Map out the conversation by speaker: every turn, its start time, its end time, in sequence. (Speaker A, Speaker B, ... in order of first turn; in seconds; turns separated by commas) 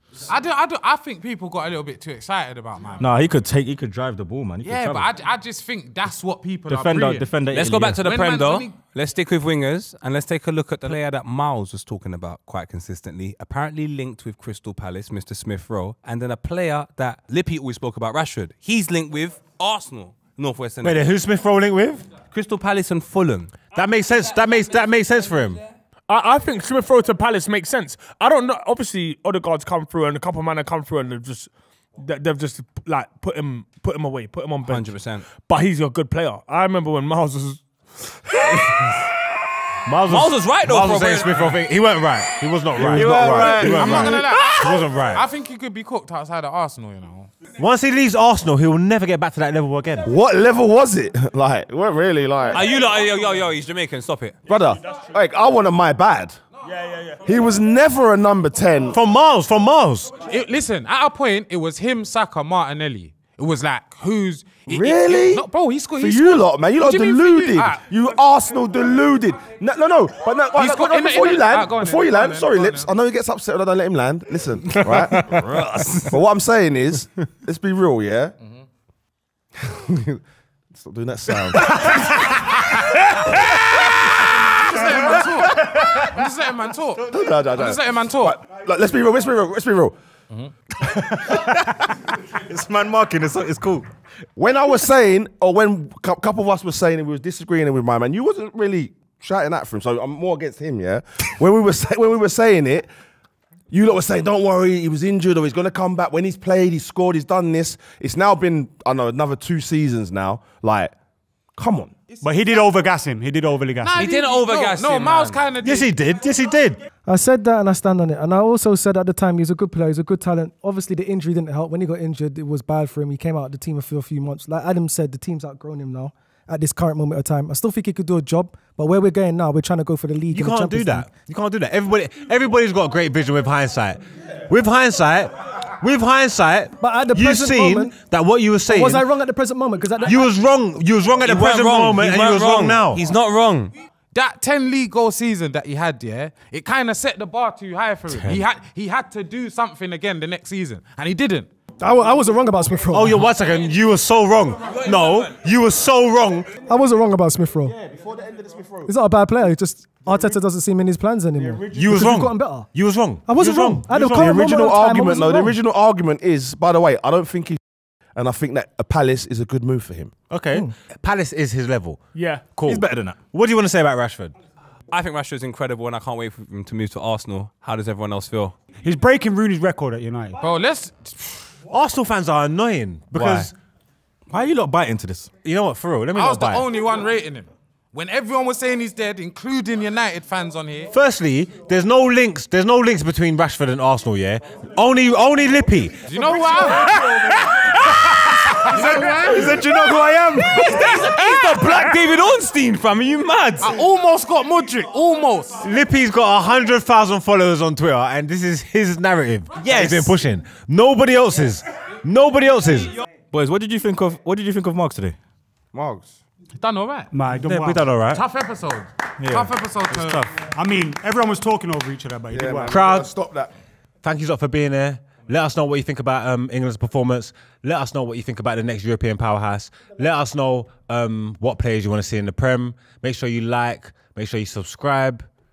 Speaker A: 0.2-3.1, Speaker B: 3.0-5.1, Speaker A: 4.6-7.3, Speaker B: 6.7-8.0, Speaker C: 7.5-21.1, Speaker A: 8.0-8.8, Speaker D: 20.8-22.1, Speaker C: 22.3-23.6, Speaker D: 23.7-25.6, Speaker E: 26.1-39.0, Speaker C: 34.6-35.2, Speaker D: 39.9-45.2, Speaker C: 40.1-41.6, Speaker F: 42.8-43.8, Speaker C: 42.8-44.2, Speaker A: 43.0-47.3, Speaker D: 47.6-50.1, Speaker F: 50.0-52.6, Speaker C: 52.5-54.4, Speaker F: 54.5-56.4, Speaker E: 56.7-57.2, Speaker F: 57.2-59.0, Speaker D: 58.9-60.1, Speaker A: 60.2-67.8, Speaker F: 64.7-75.3, Speaker A: 70.5-72.9, Speaker C: 74.8-76.1, Speaker F: 76.1-78.3, Speaker F: 79.6-80.2, Speaker F: 80.7-82.0, Speaker A: 84.2-88.4, Speaker F: 87.0-90.0, Speaker B: 90.9-93.9, Speaker F: 94.3-102.9, Speaker F: 103.7-110.9, Speaker F: 111.5-111.9, Speaker G: 112.2-114.0, Speaker A: 113.8-115.9, Speaker C: 114.0-115.4, Speaker D: 115.6-116.8, Speaker H: 117.0-131.1, Speaker D: 130.3-139.1, Speaker H: 136.8-137.9, Speaker H: 138.7-140.3, Speaker D: 140.0-143.0, Speaker C: 141.2-143.7, Speaker A: 144.1-151.5, Speaker H: 151.8-153.2, Speaker D: 152.9-156.5, Speaker C: 154.6-155.3, Speaker H: 156.7-157.8, Speaker F: 157.6-158.9, Speaker H: 158.8-162.7, Speaker F: 161.3-161.8, Speaker D: 161.7-164.2, Speaker H: 163.2-165.6, Speaker F: 163.9-167.6, Speaker F: 168.1-170.1, Speaker D: 170.3-172.0, Speaker E: 172.1-172.4, Speaker B: 172.5-173.2, Speaker D: 172.6-174.3, Speaker C: 174.9-178.5, Speaker G: 178.8-180.4, Speaker A: 180.4-181.5, Speaker D: 181.7-183.5, Speaker B: 183.1-183.5, Speaker B: 184.3-185.3, Speaker D: 185.4-186.6, Speaker A: 186.1-190.9, Speaker D: 190.9-196.1, Speaker A: 196.1-197.2, Speaker C: 197.3-197.7, Speaker A: 198.5-201.5, Speaker B: 198.7-200.6, Speaker C: 200.4-203.8, Speaker A: 203.6-205.6, Speaker D: 205.6-212.9, Speaker C: 209.6-210.1, Speaker B: 213.3-215.2, Speaker F: 215.7-216.2, Speaker A: 216.5-217.1, Speaker G: 217.1-217.9, Speaker D: 217.4-218.2, Speaker A: 218.0-220.3, Speaker B: 219.2-220.3, Speaker G: 220.4-222.8, Speaker F: 222.3-223.5, Speaker D: 222.7-223.1, Speaker D: 224.0-235.3